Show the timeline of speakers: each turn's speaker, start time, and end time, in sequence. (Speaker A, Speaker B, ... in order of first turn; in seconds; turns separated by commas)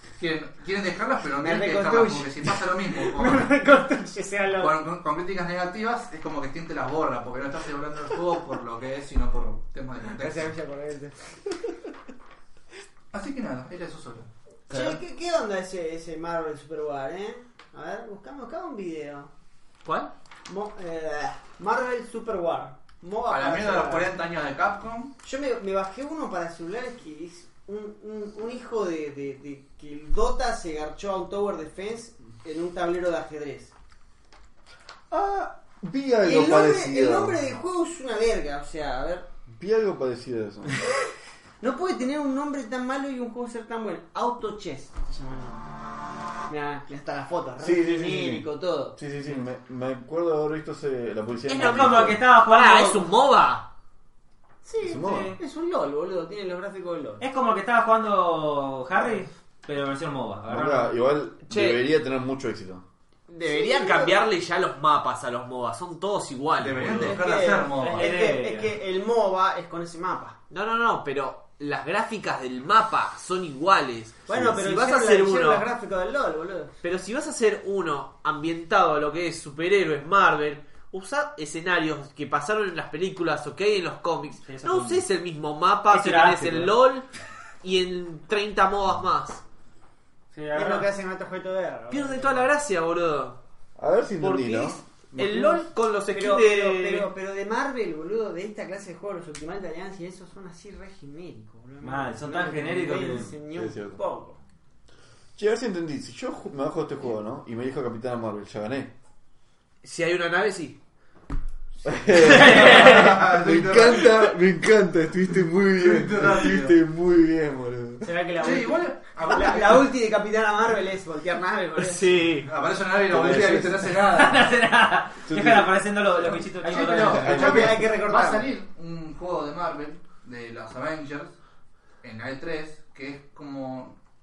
Speaker A: 0.2-3.5, Speaker B: 1.4-4.8, Speaker A: 4.5-10.5, Speaker B: 10.2-11.4, Speaker A: 13.1-14.3, Speaker C: 14.7-15.0, Speaker B: 14.7-19.3, Speaker C: 19.9-20.1, Speaker B: 20.5-24.1, Speaker A: 23.3-25.1, Speaker B: 25.2-33.7, Speaker D: 35.1-37.4, Speaker B: 36.2-39.3, Speaker D: 39.5-40.8, Speaker B: 41.6-45.6, Speaker B: 46.5-49.0, Speaker D: 47.6-52.2, Speaker C: 51.5-53.7, Speaker E: 51.6-53.1, Speaker B: 54.6-57.2, Speaker D: 54.8-55.4, Speaker E: 55.0-55.4, Speaker E: 57.2-61.0, Speaker D: 60.5-62.8, Speaker C: 61.5-61.8, Speaker C: 63.3-67.2, Speaker B: 63.4-64.2, Speaker A: 66.6-68.1, Speaker B: 66.8-70.4, Speaker E: 67.8-68.7, Speaker C: 70.5-75.7, Speaker B: 74.3-76.7, Speaker C: 76.8-87.1, Speaker E: 84.5-85.0, Speaker E: 85.9-86.7, Speaker C: 87.6-89.4, Speaker E: 90.3-90.9, Speaker B: 90.5-92.5, Speaker C: 91.9-93.4, Speaker D: 93.8-95.5, Speaker C: 94.2-97.1, Speaker B: 95.4-95.6, Speaker B: 96.1-104.4, Speaker E: 101.8-103.3, Speaker D: 103.4-104.0, Speaker D: 105.4-108.9, Speaker C: 109.8-110.8, Speaker D: 111.8-118.1, Speaker A: 112.3-114.3, Speaker C: 112.5-112.8, Speaker A: 115.7-116.7, Speaker B: 118.0-122.1, Speaker A: 118.4-119.9, Speaker C: 121.8-122.5, Speaker A: 122.4-124.5, Speaker D: 123.1-123.9, Speaker E: 124.1-127.3, Speaker D: 125.3-125.9, Speaker A: 126.4-131.3, Speaker B: 126.8-128.5, Speaker D: 126.9-127.9, Speaker A: 132.0-133.9